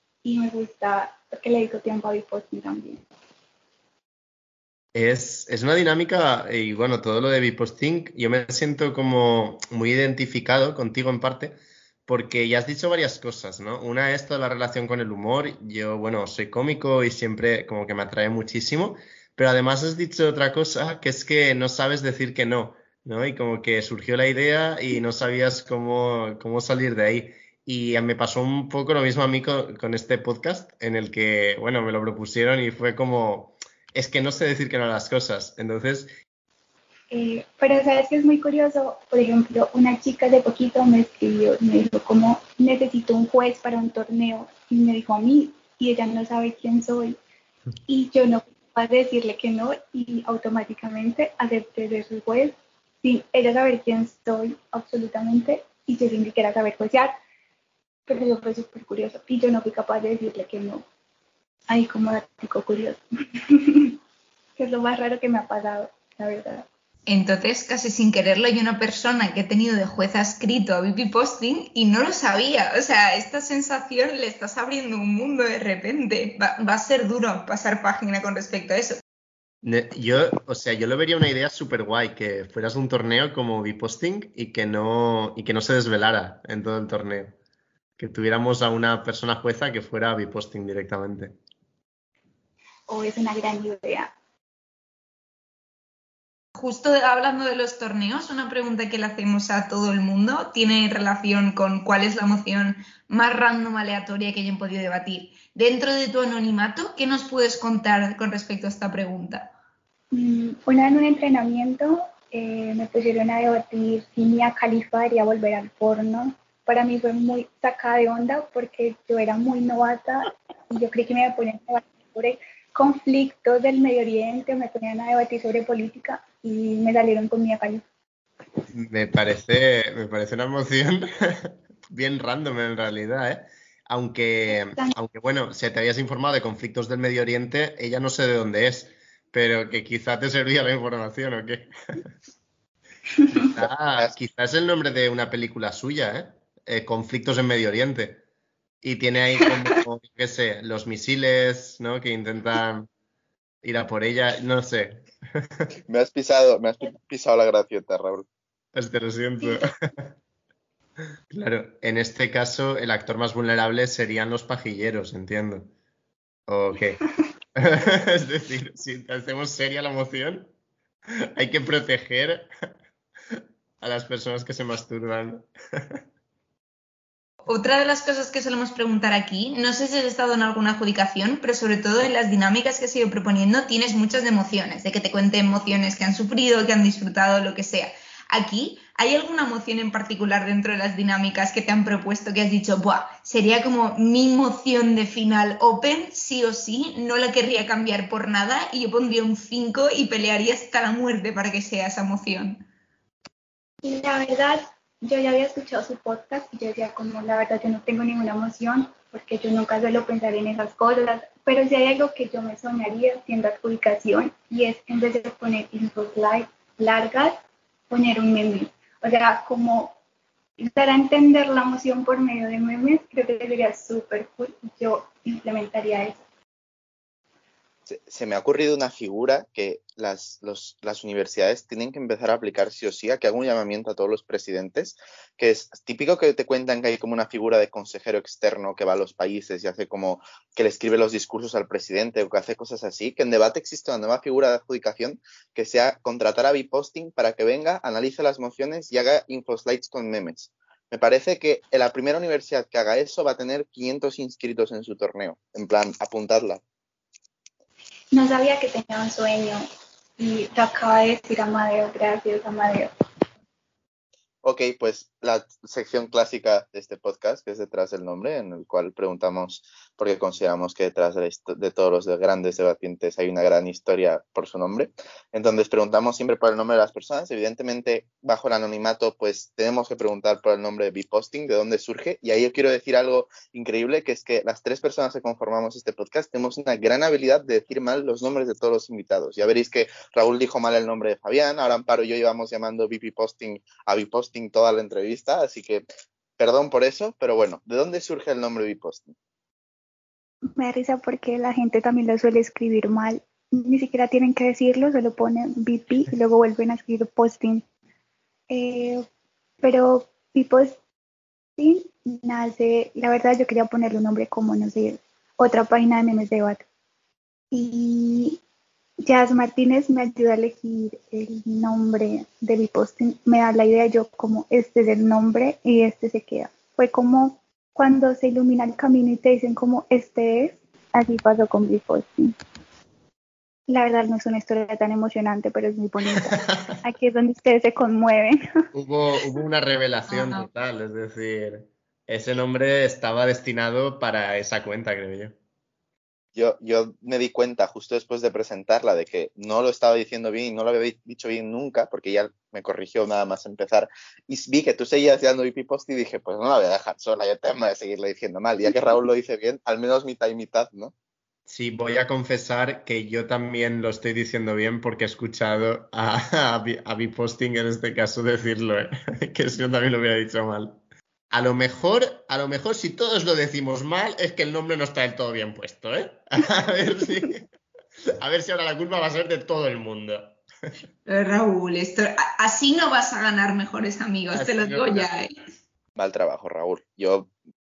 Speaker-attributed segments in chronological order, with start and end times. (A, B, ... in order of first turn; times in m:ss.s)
0:00.2-0:03.0 A
0:04.9-0:36.1 B
0:37.1-0:47.2 A
0:47.9-0:57.1 A
0:58.1-1:00.8 A
1:01.7-1:04.0 A
1:04.6-1:06.6 A
1:07.1-1:19.0 C
1:19.6-1:27.3 B
1:28.0-1:31.3 B
1:32.9-1:34.1 A
1:36.6-1:49.5 C
1:50.1-2:07.8 A
2:08.7-2:22.0 B
2:14.5-2:14.9 A
2:23.3-2:28.2 B
2:28.8-2:32.9 B
2:33.6-2:35.7 B
2:35.9-2:38.2 D
2:38.7-2:40.0 B
2:41.3-2:45.7 B
2:46.5-2:47.0 B
2:47.6-2:50.5 B
2:51.3-2:52.5 B
2:53.3-2:56.0 B
2:57.4-3:22.6 C
3:23.8-3:37.4 A
3:37.9-3:40.0 A
3:40.6-3:46.2 A
3:47.9-4:16.6 D
4:18.1-4:19.6 A
4:20.2-4:22.9 A
4:24.4-4:55.8 D
4:56.4-4:59.1 D
5:00.6-5:07.6 A
5:08.5-5:09.0 A
5:09.6-5:10.8 A
5:11.6-5:16.6 A
5:17.5-5:18.4 A
5:19.0-5:32.3 A
5:33.7-5:38.4 A
5:36.2-5:36.7 B
5:38.7-5:45.3 B
5:40.1-5:40.5 C
5:46.3-6:00.9 D
6:01.5-6:10.8 B
6:11.3-6:17.4 B
6:18.2-6:20.4 B
6:21.0-6:25.4 C
6:24.3-6:25.1 B
6:26.0-6:27.3 D